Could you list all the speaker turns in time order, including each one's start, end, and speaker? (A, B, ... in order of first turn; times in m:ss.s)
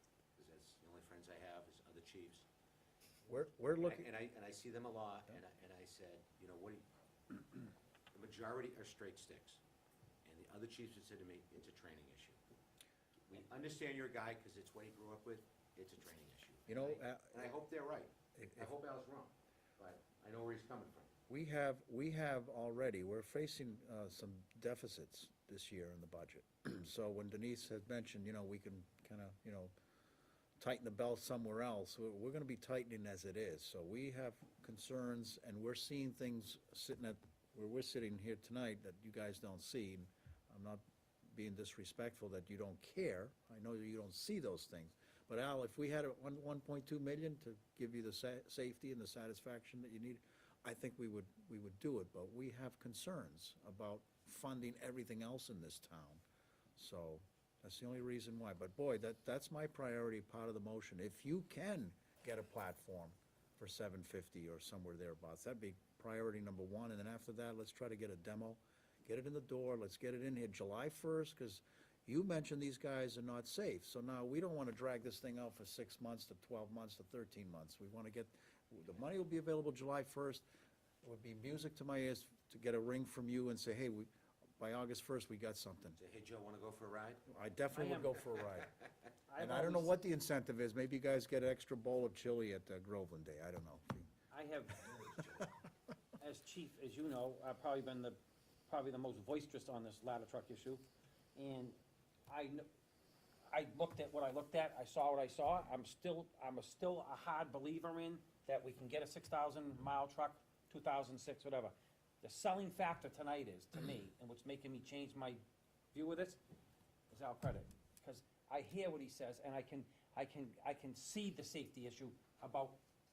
0:00.4-0:02.4 A
0:03.2-0:04.1 B
0:03.8-0:09.6 A
0:10.2-0:12.4 A
0:13.3-0:21.1 A
0:16.7-0:17.5 B
0:18.4-0:18.7 B
0:21.3-0:29.7 B
0:30.6-0:56.2 B
0:56.8-1:20.4 B
1:21.0-1:26.0 B
1:26.0-1:27.2 A
1:27.3-1:28.7 B
1:27.7-1:28.2 C
1:28.6-1:28.8 A
1:29.3-1:29.9 C
1:29.4-1:34.1 B
1:34.3-1:34.8 C
1:35.1-1:35.4 A
1:36.2-1:40.8 C
1:41.4-1:41.8 C
1:42.3-1:42.6 C
1:43.5-1:55.4 C
1:55.9-1:56.4 C
1:57.1-2:02.8 C